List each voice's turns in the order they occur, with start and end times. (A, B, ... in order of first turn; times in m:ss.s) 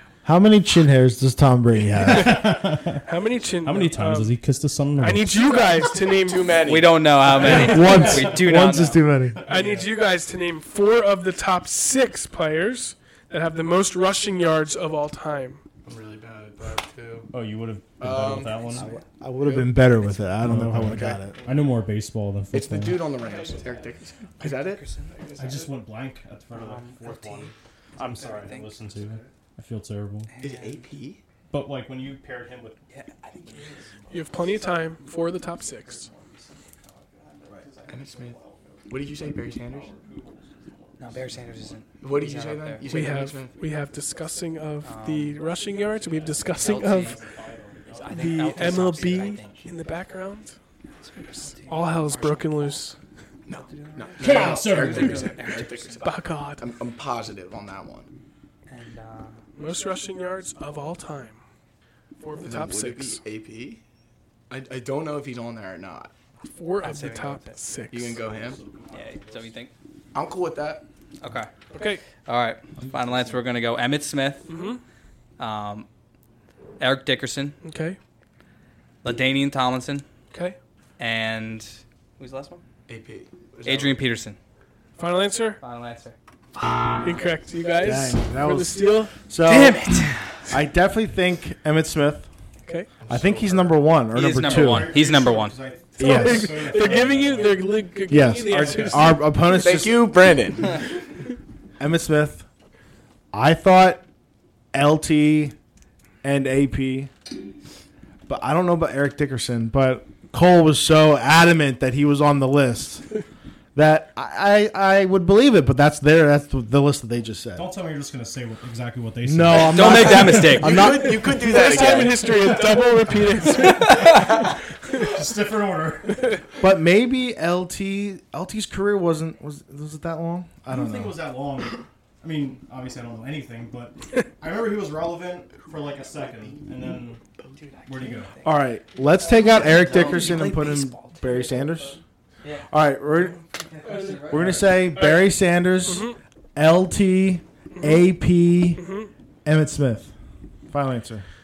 0:00.2-0:02.5 A
0:02.1-0:03.0 B
0:03.0-0:04.4 C
0:03.6-0:05.4 B
0:05.0-0:06.6 C
0:06.2-0:07.6 D
0:06.6-0:09.0 E
0:07.4-0:08.4 B
0:07.4-0:09.4 A
0:09.3-0:09.9 B
0:09.5-0:15.6 C
0:15.8-0:17.3 D
0:17.3-0:18.9 B
0:18.0-0:18.9 D
0:18.8-0:19.0 E
0:18.8-0:21.4 A
0:20.4-0:23.0 B
0:20.9-0:21.3 D
0:22.5-0:24.8 D
0:23.2-0:23.8 E
0:24.4-0:25.7 E
0:25.4-0:30.3 B
0:26.5-0:28.8 E
0:30.3-0:30.9 E
0:30.4-0:31.2 D
0:31.5-0:32.8 B
0:32.9-0:33.8 E
0:33.4-0:34.2 B
0:34.1-0:36.1 C
0:35.7-0:41.8 B
0:37.9-0:38.4 D
0:38.9-0:39.9 D
0:41.0-0:42.8 E
0:42.0-0:43.5 D
0:42.8-0:47.1 C
0:44.8-0:45.4 E
0:45.8-0:49.5 B
0:46.6-0:47.2 E
0:47.9-0:49.7 E
0:48.2-0:50.6 C
0:50.9-0:52.9 E
0:51.6-0:53.0 C
0:53.4-0:58.1 D
0:53.7-0:56.1 E
0:54.2-0:55.4 B
0:56.0-0:56.6 C
0:58.7-0:59.4 E
0:59.6-1:01.4 C
1:02.2-1:03.2 C
1:02.4-1:03.8 D
1:04.5-1:06.1 D
1:06.5-1:08.2 C
1:06.8-1:07.6 E
1:07.9-1:08.6 D
1:08.2-1:09.6 B
1:08.9-1:09.7 E
1:10.1-1:10.8 D
1:11.2-1:11.5 E
1:11.7-1:12.0 C
1:12.2-1:14.5 E
1:14.5-1:14.8 C
1:15.4-1:15.9 E
1:16.8-1:17.6 E
1:17.6-1:18.0 C
1:19.0-1:20.0 E
1:21.0-1:22.6 E
1:22.9-1:24.0 D
1:23.6-1:24.4 E
1:25.0-1:25.6 C
1:25.6-1:26.2 E
1:27.0-1:29.1 C
1:27.8-1:29.9 A
1:29.4-1:30.3 E
1:30.5-1:32.3 A
1:33.0-1:33.8 D
1:33.1-1:34.9 A
1:34.1-1:35.6 E
1:34.3-1:39.2 B
1:36.0-1:36.7 A
1:36.0-1:39.2 C
1:38.1-1:40.1 A
1:39.6-1:40.8 D
1:41.8-1:42.4 A
1:43.3-1:44.0 A
1:44.7-1:45.5 A
1:46.2-1:47.1 A
1:48.3-1:53.0 A
1:53.7-1:57.7 A
1:57.5-2:00.6 B
1:59.2-2:01.8 A
1:59.5-2:00.8 E
2:00.5-2:02.3 D
2:01.2-2:05.1 C
2:03.7-2:06.3 B
2:06.6-2:11.2 A
2:10.7-2:17.2 B
2:15.6-2:17.6 D
2:17.5-2:24.7 E
2:17.8-2:18.3 B
2:18.4-2:22.0 A
2:22.7-2:23.4 A
2:23.9-2:24.2 C
2:24.2-2:28.8 A
2:24.3-2:24.7 B
2:25.0-2:25.3 C
2:25.8-2:26.2 C
2:27.8-2:28.0 C
2:28.8-2:29.1 C
2:29.4-2:30.1 A
2:30.7-2:31.2 A